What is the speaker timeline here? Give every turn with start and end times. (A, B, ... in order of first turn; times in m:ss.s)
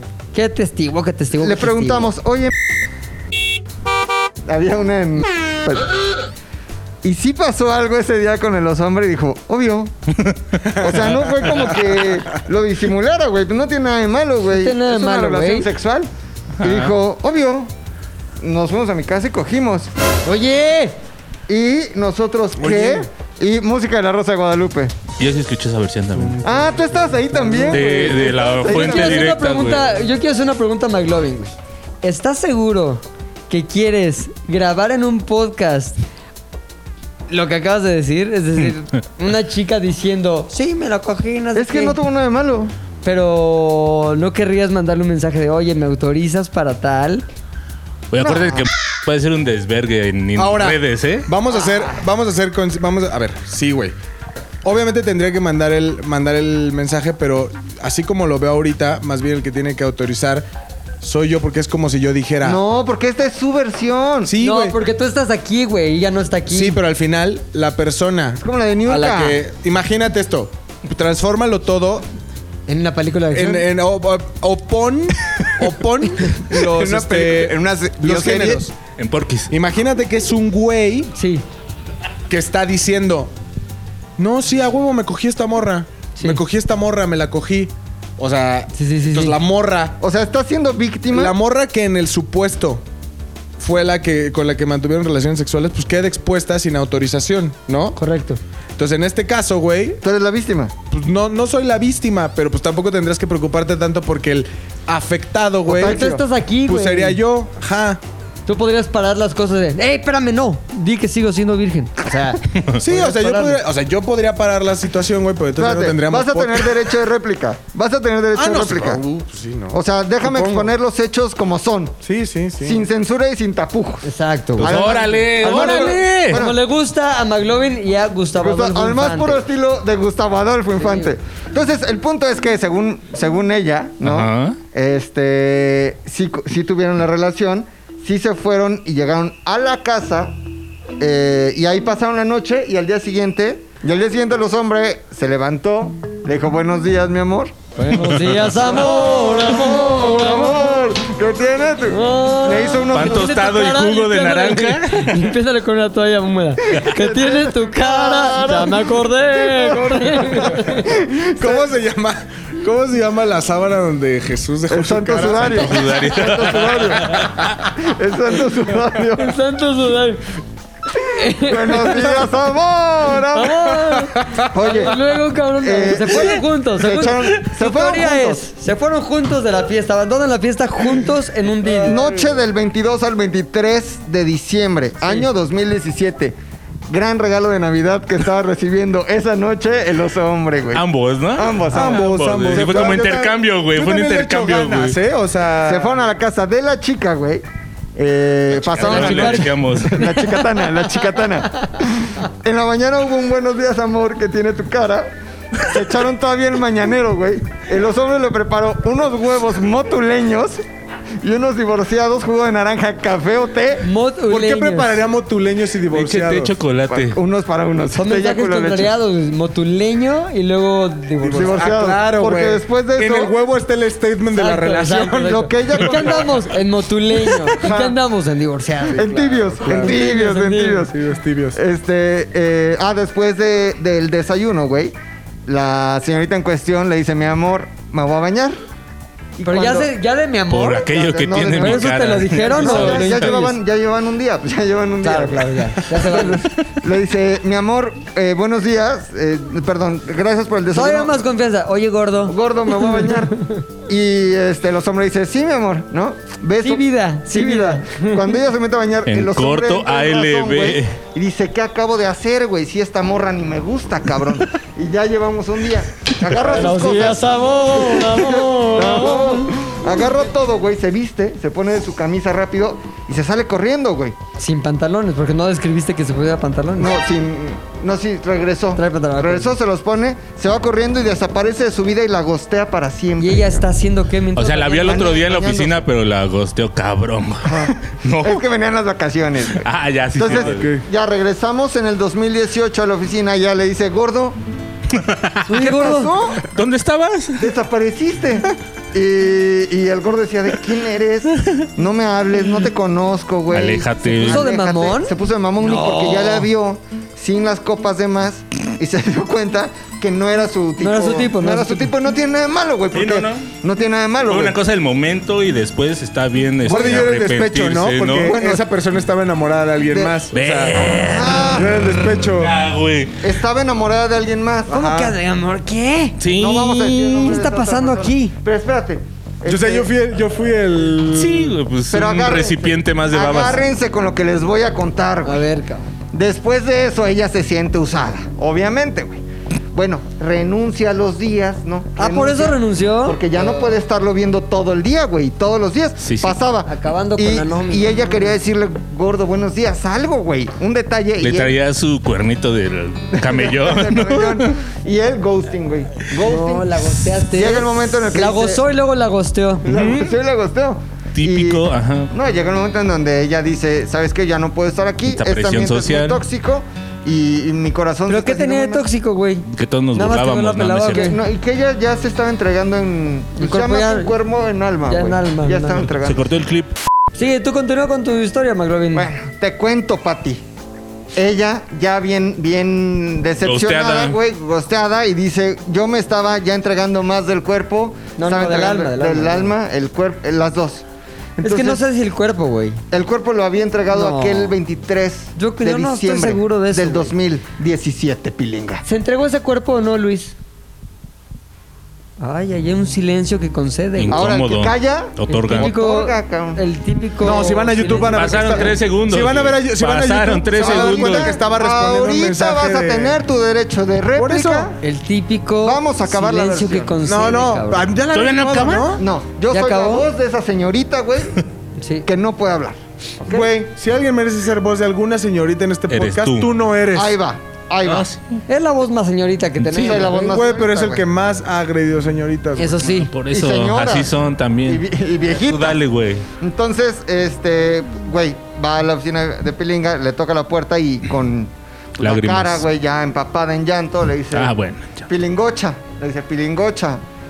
0:00.3-0:02.1 A
0:01.4-0:02.5 B
0:04.5-0:06.0 B
0:07.0-0:09.9 B
0:10.2-0:10.6 C
0:10.7-0:12.1 D
0:10.8-0:16.1 B
0:14.4-0:15.7 A
0:16.6-0:17.0 C
0:16.6-0:17.7 B
0:18.4-0:19.9 B
0:20.2-0:21.0 A
0:21.5-0:24.9 B
0:22.6-0:23.1 D
0:25.2-0:26.4 C
0:26.2-0:28.4 D
0:26.4-0:29.4 B
0:27.7-0:29.9 C
0:28.6-0:36.0 A
0:37.3-0:42.0 A
0:41.6-0:42.7 B
0:43.0-0:47.2 A
0:48.1-0:51.3 C
0:48.2-0:48.7 B
0:50.4-0:54.0 D
0:54.6-1:00.5 D
1:01.0-1:02.6 D
1:02.4-1:04.3 B
1:04.2-1:04.8 D
1:04.4-1:06.8 A
1:06.5-1:12.1 D
1:08.4-1:09.4 B
1:12.7-1:13.7 A
1:13.3-1:18.7 D
1:16.7-1:18.7 B
1:19.0-1:19.5 C
1:19.5-1:21.1 D
1:21.2-1:21.4 A
1:22.3-1:23.3 D
1:24.2-1:30.0 D
1:28.8-1:29.4 A
1:30.0-1:31.4 B
1:31.1-1:32.8 D
1:33.6-1:38.0 D
1:38.0-1:38.4 A
1:38.8-1:40.0 D
1:40.0-1:40.7 B
1:40.9-1:48.0 D
1:45.7-1:46.2 B
1:45.7-1:47.2 A
1:48.5-1:53.6 A
1:52.8-1:56.9 D
1:55.6-1:59.0 B
1:58.3-2:00.8 D
1:59.7-2:02.0 B
2:02.0-2:02.9 D
2:02.6-2:04.0 B
2:04.0-2:04.9 A
2:04.6-2:06.6 B
2:04.6-2:06.4 C
2:05.4-2:09.4 A
2:08.4-2:20.4 B
2:10.8-2:11.1 A
2:14.0-2:14.6 C
2:21.0-2:27.6 B
2:27.8-2:30.6 A
2:28.0-2:28.5 C
2:28.5-2:33.5 B
2:31.9-2:40.9 A
2:32.9-2:35.3 C
2:36.7-2:41.7 B
2:40.8-2:45.9 D
2:44.7-2:49.4 B
2:45.4-2:47.5 C
2:49.2-2:50.2 A
2:50.9-2:52.1 A
2:51.4-2:53.6 B
2:53.3-3:02.0 A
2:53.6-2:54.5 D
2:54.5-2:55.0 B
2:55.6-2:58.4 B
3:01.6-3:02.4 D
3:01.8-3:06.4 B
3:06.9-3:13.2 B
3:10.7-3:15.0 C
3:11.7-3:16.1 D
3:15.6-3:17.4 B
3:18.0-3:30.6 B
3:18.5-3:20.2 C
3:18.8-3:20.1 A
3:31.2-3:33.8 B
3:33.8-3:35.0 A
3:34.3-3:36.5 D
3:35.9-3:37.2 C
3:36.9-3:38.9 B
3:38.0-3:41.6 A
3:41.2-3:46.3 D
3:41.3-3:43.3 B
3:44.3-3:50.9 A
3:45.2-3:46.3 B
3:47.2-3:48.0 D
3:48.9-3:51.0 B
3:49.6-3:50.0 D
3:50.9-3:51.6 D
3:51.6-3:54.9 B
3:55.5-3:58.6 B
3:59.4-3:59.9 B
3:59.4-4:03.4 A
4:00.5-4:03.6 C
4:00.9-4:11.2 B
4:05.0-4:06.4 A
4:10.7-4:13.1 A
4:12.3-4:13.4 B
4:13.9-4:34.2 B
4:16.6-4:18.3 A
4:19.1-4:21.0 C
4:26.3-4:29.5 A
4:34.4-4:37.0 A
4:36.8-4:43.7 B
4:38.8-4:39.6 A
4:43.2-4:45.2 A
4:44.4-4:48.4 C
4:44.8-4:45.9 B
4:47.4-4:54.4 B
4:49.5-4:50.7 C
4:50.2-4:50.8 D
4:54.9-4:55.4 C
4:55.5-4:56.1 A
4:55.5-4:56.5 B
4:56.5-4:57.5 C
4:57.4-5:14.6 B
5:03.5-5:04.5 C
5:04.2-5:06.5 A
5:10.8-5:11.9 A
5:12.9-5:13.5 C
5:14.3-5:18.4 C
5:16.7-5:22.6 D
5:16.7-5:17.2 B
5:18.2-5:18.6 B
5:19.9-5:20.2 B
5:20.3-5:23.2 C
5:20.9-5:21.7 B
5:23.2-5:24.8 B
5:24.7-5:25.1 D
5:24.7-5:26.2 A
5:26.2-5:27.0 C
5:26.3-5:29.9 B
5:26.8-5:28.3 A
5:29.5-5:31.6 D
5:31.1-5:33.6 C
5:31.9-5:35.4 B
5:35.2-5:35.9 A
5:36.1-5:51.6 B
5:42.0-5:43.8 A
5:46.0-5:46.4 C
5:46.7-5:48.4 A
5:51.2-5:54.5 C
5:53.2-5:56.8 B
5:56.2-5:59.7 A
5:57.3-5:58.6 B
5:59.6-6:08.9 B
6:01.2-6:02.1 C
6:05.1-6:06.2 C
6:08.1-6:11.2 A
6:09.5-6:11.1 C
6:10.9-6:16.3 B
6:13.4-6:14.1 A
6:14.9-6:15.9 A
6:16.0-6:16.7 C
6:17.2-6:19.1 A
6:18.9-6:20.4 B
6:21.2-6:30.8 B
6:23.4-6:24.2 C
6:28.2-6:29.5 A
6:31.4-6:31.8 D
6:31.4-6:32.8 A
6:32.9-6:38.8 B
6:33.9-6:34.6 A
6:35.4-6:37.1 A
6:38.8-6:40.3 A
6:42.2-6:44.3 A
6:44.0-6:45.7 C
6:44.1-6:46.6 B
6:45.3-6:48.7 A
6:47.2-6:53.2 D
6:48.1-6:51.4 C
6:50.6-6:54.8 B
6:54.1-6:54.7 D
6:54.8-6:57.9 A
6:55.6-6:56.9 B
6:57.0-6:59.0 D
6:58.1-6:58.9 C
6:59.0-7:01.4 B
6:59.5-7:00.1 A
7:01.8-7:02.1 A
7:02.0-7:02.8 B
7:03.2-7:07.2 D
7:05.9-7:06.5 C
7:06.9-7:08.1 B
7:07.8-7:08.4 C
7:08.5-7:10.2 A
7:09.7-7:12.9 D
7:09.7-7:11.0 B
7:12.6-7:13.1 A
7:12.9-7:16.3 C
7:13.3-7:15.8 B
7:16.4-7:24.5 B
7:22.0-7:22.6 C
7:24.3-7:25.1 C
7:25.1-7:27.0 B